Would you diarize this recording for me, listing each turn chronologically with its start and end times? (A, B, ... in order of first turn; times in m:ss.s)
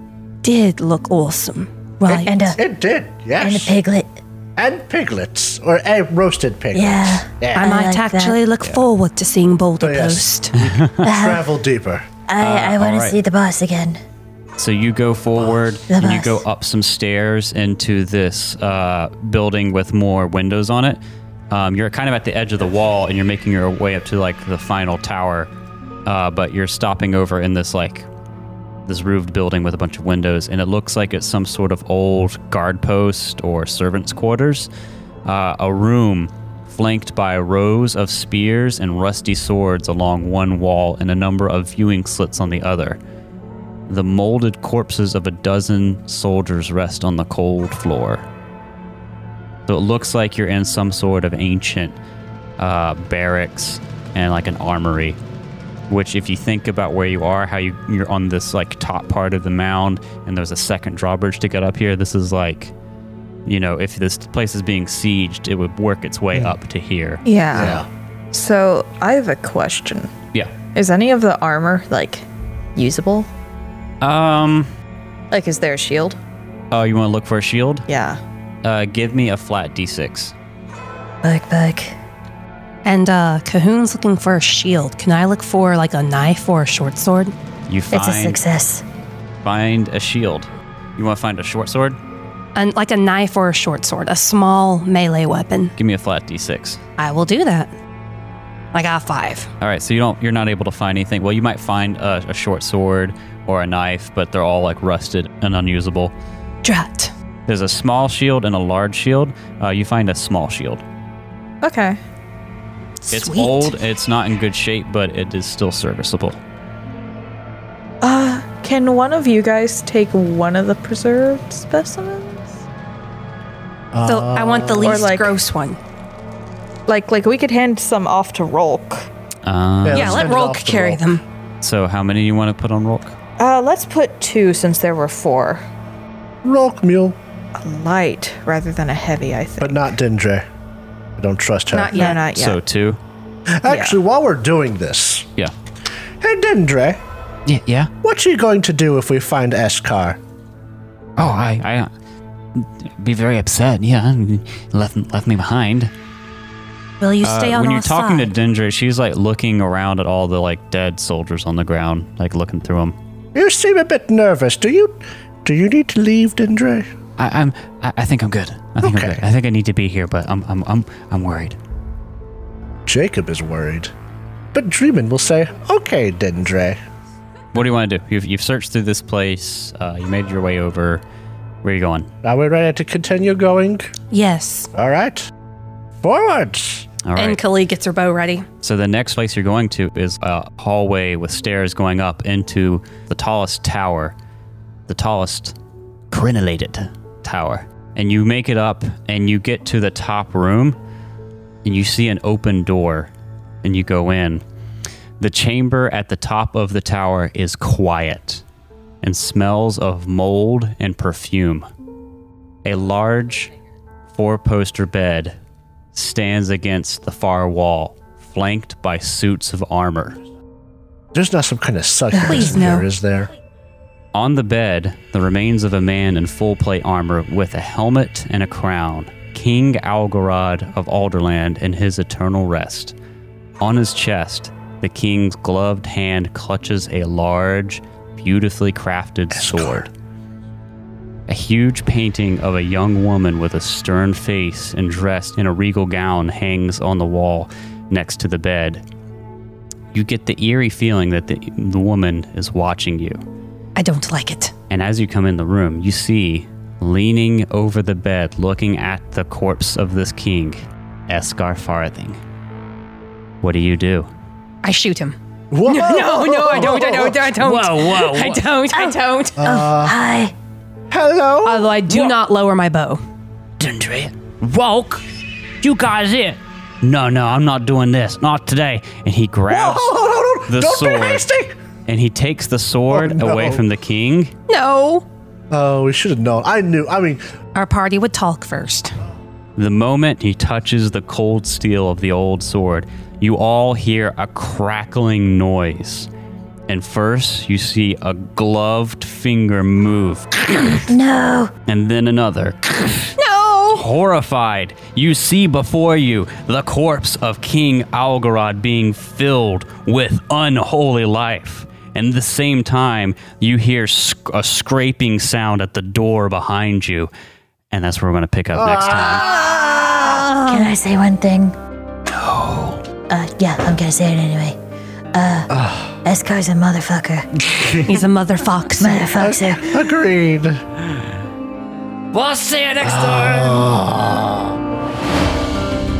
0:00.4-0:02.4 A
0:02.1-0:02.6 B
0:02.4-0:03.8 C
0:03.4-0:04.1 B
0:04.6-0:07.7 C
0:06.7-0:08.4 B
0:07.6-0:10.5 A
0:09.8-0:12.1 C
0:10.6-0:11.1 D
0:11.0-0:11.4 B
0:12.3-0:14.0 B
0:12.4-0:13.2 D
0:14.6-0:25.5 D
0:15.9-0:16.4 B
0:26.0-0:28.1 D
0:28.9-0:34.7 D
0:35.2-0:43.0 D
0:43.9-0:48.3 D
0:49.7-0:52.0 D
0:52.6-0:55.2 D
0:55.9-1:02.7 D
1:03.5-1:07.8 D
1:07.2-1:07.8 E
1:07.6-1:07.9 C
1:08.3-1:10.1 E
1:10.7-1:13.3 E
1:14.0-1:14.7 D
1:15.3-1:16.2 E
1:16.7-1:17.9 D
1:17.9-1:18.2 E
1:18.6-1:20.3 D
1:21.2-1:22.0 B
1:22.8-1:27.3 A
1:27.7-1:28.4 D
1:27.9-1:28.8 B
1:29.4-1:32.0 D
1:32.6-1:35.7 A
1:35.8-1:36.8 D
1:37.0-1:37.7 A
1:38.7-1:39.5 A
1:39.6-1:46.1 D
1:46.6-1:47.1 A
1:47.5-1:50.8 D
1:51.6-1:52.0 E
1:53.0-1:53.7 A
1:53.1-1:56.4 D
1:58.0-2:02.6 E
2:03.9-2:05.0 C
2:04.1-2:05.8 A
2:04.8-2:05.3 E
2:06.9-2:09.1 E
2:09.5-2:10.3 D
2:09.8-2:11.2 C
2:09.9-2:11.2 A
2:11.6-2:13.2 D
2:13.4-2:15.6 E
2:16.4-2:17.2 C
2:17.6-2:19.8 E
2:19.6-2:20.5 C
2:21.2-2:22.1 C
2:21.7-2:22.2 A
2:22.0-2:22.6 E
2:22.2-2:23.0 D
2:23.5-2:25.3 C
2:23.7-2:24.0 E
2:26.2-2:27.0 C
2:27.5-2:27.9 D
2:28.0-2:30.2 C
2:31.2-2:31.9 D
2:32.6-2:35.9 D
2:37.0-2:38.3 A
2:37.2-2:43.0 D
2:43.3-2:46.9 C
2:47.2-2:51.6 D
2:48.8-2:49.2 C
2:52.9-2:53.9 C
2:54.5-2:56.8 C
2:57.5-3:01.0 D
3:01.6-3:02.1 D
3:02.2-3:03.9 C
3:04.1-3:04.7 A
3:04.7-3:05.3 C
3:06.0-3:06.9 C
3:07.0-3:07.4 D
3:07.2-3:08.5 A
3:08.6-3:14.2 D
3:14.9-3:15.6 D
3:16.1-3:20.8 D
3:21.6-3:23.1 D
3:23.6-3:24.4 D
3:25.2-3:28.4 D
3:29.0-3:31.7 D
3:32.6-3:33.5 D
3:34.1-3:35.4 D
3:35.9-3:40.2 D
3:41.1-3:43.3 C
3:42.1-3:42.6 B
3:42.2-3:42.9 A
3:44.1-3:53.0 D
3:53.6-3:59.9 D
3:59.3-3:59.9 C
4:01.3-4:08.8 D
4:09.9-4:13.2 D
4:13.8-4:14.5 A
4:14.7-4:22.2 D
4:23.4-4:24.1 D
4:24.6-4:29.4 A
4:25.5-4:27.3 C
4:27.4-4:28.4 D
4:28.7-4:30.3 B
4:29.4-4:30.0 C
4:30.9-4:32.1 C
4:31.4-4:33.0 A
4:33.6-4:35.0 D
4:35.6-4:39.9 D
4:39.5-4:41.6 C
4:40.5-4:41.3 D
4:41.9-4:44.3 D
4:42.9-4:43.6 C
4:44.5-4:45.0 A
4:45.5-4:47.2 C
4:47.6-4:49.0 A
4:49.6-4:56.1 D
4:56.7-5:00.8 D
5:00.9-5:01.5 B
5:01.7-5:03.2 D
5:03.2-5:03.9 A
5:03.7-5:17.1 D
5:17.7-5:19.3 D
5:18.6-5:20.3 C
5:20.5-5:21.6 B
5:22.1-5:22.8 D
5:23.1-5:24.6 B
5:25.1-5:25.5 B
5:25.5-5:25.9 C
5:26.0-5:27.3 B
5:27.6-5:27.8 D
5:27.9-5:29.1 A
5:28.8-5:29.7 B
5:29.2-5:30.6 C
5:32.1-5:33.6 D
5:32.8-5:34.6 C